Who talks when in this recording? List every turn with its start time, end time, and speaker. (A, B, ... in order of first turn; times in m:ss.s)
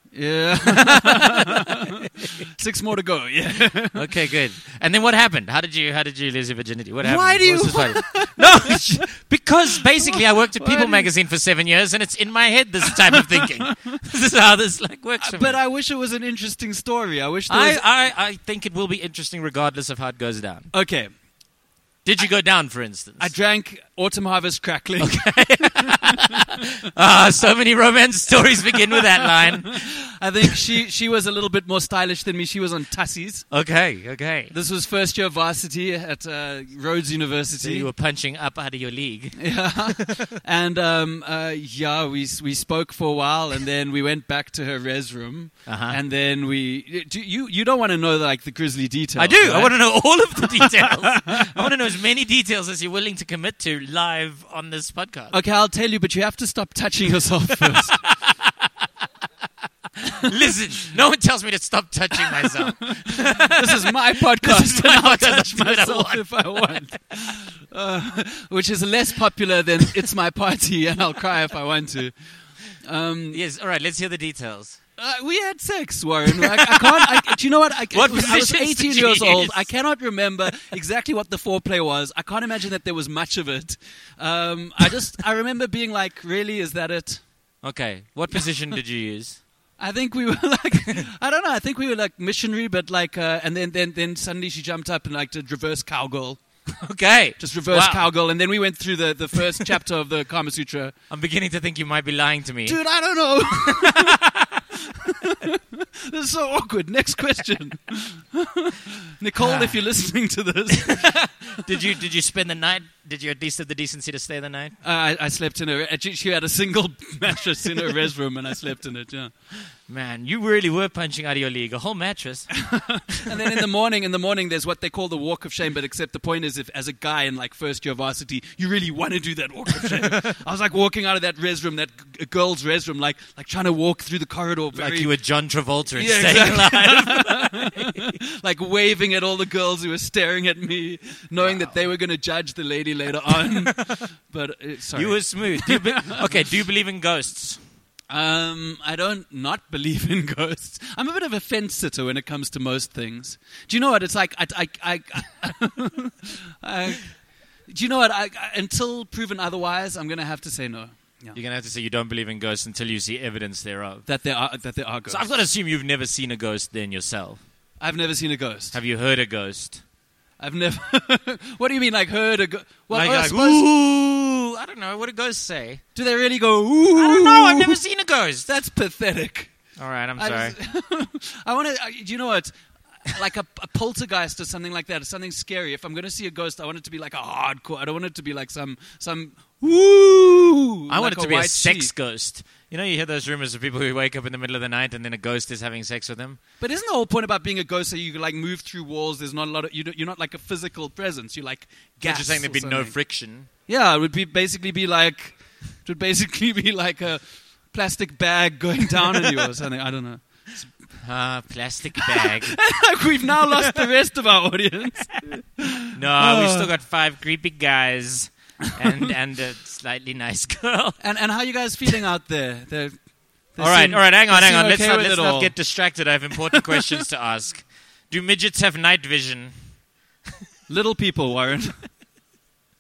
0:00.1-0:04.1 A
0:00.6-0:01.4 B
0:03.9-0:15.6 B
0:07.0-0:08.8 A
0:09.8-0:11.1 A
0:15.2-0:17.8 A
0:17.5-0:20.7 B
0:20.7-0:21.1 A
0:22.0-0:23.3 B
0:23.2-0:26.1 A
0:25.0-0:29.9 B
0:29.2-0:33.5 A
0:33.5-0:34.5 B
0:34.5-0:37.9 A
0:37.6-0:40.2 B
0:39.4-0:49.8 A
0:45.6-0:46.0 B
0:49.2-0:55.4 B
0:50.8-0:51.3 A
0:55.3-0:58.0 A
0:57.6-0:58.8 B
1:00.2-1:06.8 B
1:02.8-1:12.2 A
1:12.7-1:13.4 A
1:13.3-1:14.8 B
1:15.0-1:27.2 A
1:16.4-1:17.4 B
1:17.9-1:19.6 B
1:27.6-1:29.4 B
1:29.8-1:36.4 A
1:36.8-1:38.1 B
1:37.4-1:40.9 A
1:41.1-1:42.8 B
1:42.6-1:44.2 A
1:43.6-1:44.5 B
1:45.0-1:51.1 A
1:49.4-1:49.8 B
1:50.8-1:54.8 B
1:54.8-1:59.3 A
1:59.8-2:03.3 B
2:02.6-2:15.1 A
2:14.7-2:18.0 B
2:15.9-2:26.3 A
2:21.4-2:21.8 B
2:23.4-2:24.0 B
2:24.9-2:27.6 B
2:28.1-2:41.4 A
2:41.3-2:44.0 B
2:44.0-2:45.3 A
2:45.1-2:47.4 B
2:47.8-2:48.8 A
2:48.7-2:49.8 B
2:50.4-2:53.6 A
2:52.9-2:55.8 B
2:55.9-2:57.8 A
2:57.0-2:58.5 B
2:58.4-2:59.5 A
2:59.8-3:00.6 B
3:00.2-3:02.5 A
3:03.0-3:11.9 A
3:10.9-3:16.4 B
3:16.6-3:23.0 A
3:22.0-3:23.5 B
3:23.7-3:30.7 A
3:31.0-3:32.6 B
3:32.0-3:36.7 A
3:35.9-3:41.0 B
3:41.0-3:43.0 A
3:43.5-3:45.6 A
3:43.6-3:49.5 B
3:50.7-3:51.8 A